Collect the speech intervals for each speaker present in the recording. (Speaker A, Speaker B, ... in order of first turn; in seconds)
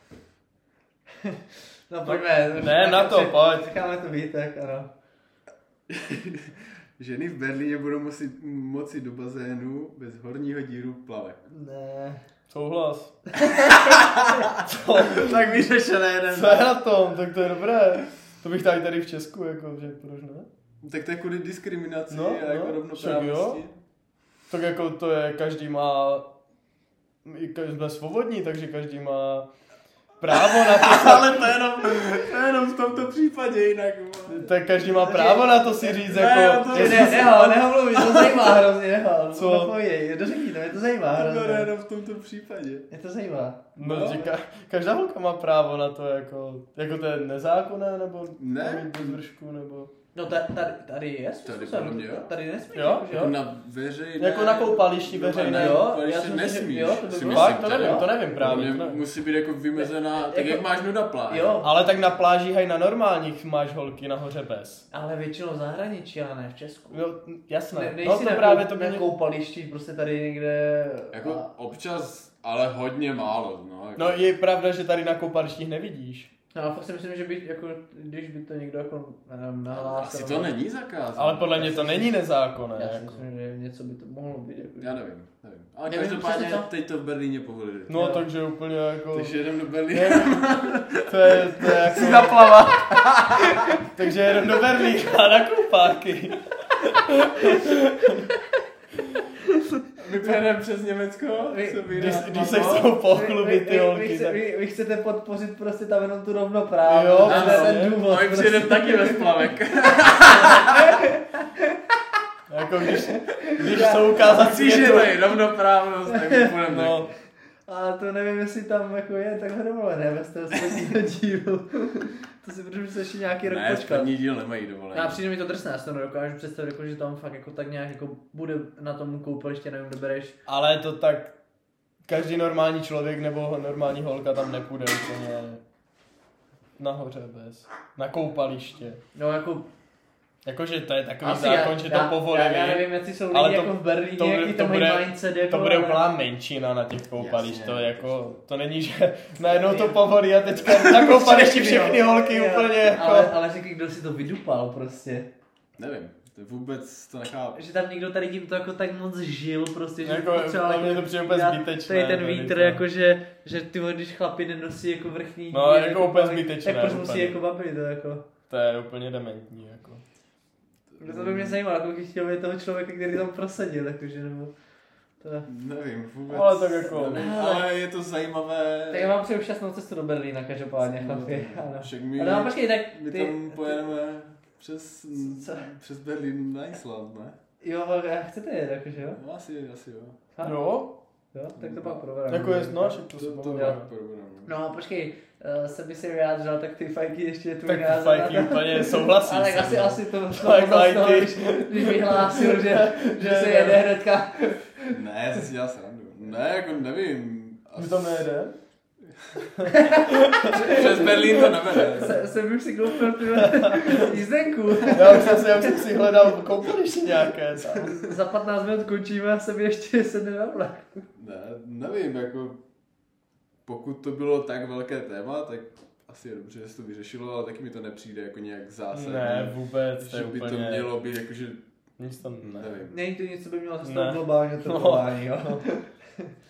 Speaker A: 1.2-4.9, 11.5-12.2, 34.8-36.0, 36.6-41.7, 42.9-43.7, 50.1-53.4, 55.4-58.1, 59.8-60.6, 61.3-61.7, 64.9-67.0, 67.7-71.5, 76.5-80.5, 82.7-85.0, 85.9-86.7, 87.9-88.2, 92.7-93.8, 101.4-109.4, 110.2-111.8, 112.9-115.1, 116.1-116.5, 117.7-124.1, 124.9-130.4, 139.1-139.7, 141.2-146.1, 149.4-155.3, 157.5-168.2, 171.0-174.5, 175.2-175.5, 176.9-177.7, 178.9-183.8, 185.3-185.7, 187.6-189.2, 190.3-190.6, 191.3-193.0, 194.4-205.0, 209.6-215.8, 217.8-220.9, 232.9-236.3
Speaker B: 2.0-3.7, 12.5-13.2, 14.6-15.3, 16.3-20.5, 22.1-23.6, 24.5-26.3, 27.2-29.5, 30.2-31.6, 34.3-37.3, 39.3-39.7, 43.8-49.9, 52.7-53.1, 54.2-55.9, 57.3-59.0, 61.6-64.8, 66.9-69.0, 74.0-76.3, 81.2-83.2, 87.9-90.4, 90.9-92.5, 93.8-98.3, 101.9-104.4, 106.8-108.0, 112.5-115.2, 116.7-117.1, 130.5-131.3, 132.1-135.6, 136.8-139.0, 140.4-153.3, 160.0-162.8, 165.5-167.4, 168.5-170.0, 176.3-177.2, 190.4-191.0, 192.3-193.9, 197.6-203.8, 207.8-208.6, 210.2-210.8, 213.2-214.1, 214.9-218.0, 228.9-230.9, 232.0-232.8, 233.8-235.6
Speaker C: 5.9-11.4, 13.5-16.7, 20.8-23.8, 30.3-34.4, 36.0-38.6, 41.1-42.9, 43.8-44.3, 48.4-49.2, 51.4-52.3, 53.1-61.6, 71.1-74.3, 79.7-82.1, 84.8-88.1, 89.1-93.8, 100.0-102.9, 107.2-111.0, 114.2-117.1, 123.4-125.2, 147.2-148.2, 155.8-157.6, 170.9-171.6, 175.5-179.1, 180.8-187.4, 189.1-190.2, 191.6-192.0, 193.1-194.5, 204.9-208.3, 209.2-209.5, 210.4-212.3, 221.2-222.6, 223.7-231.6, 232.4-232.9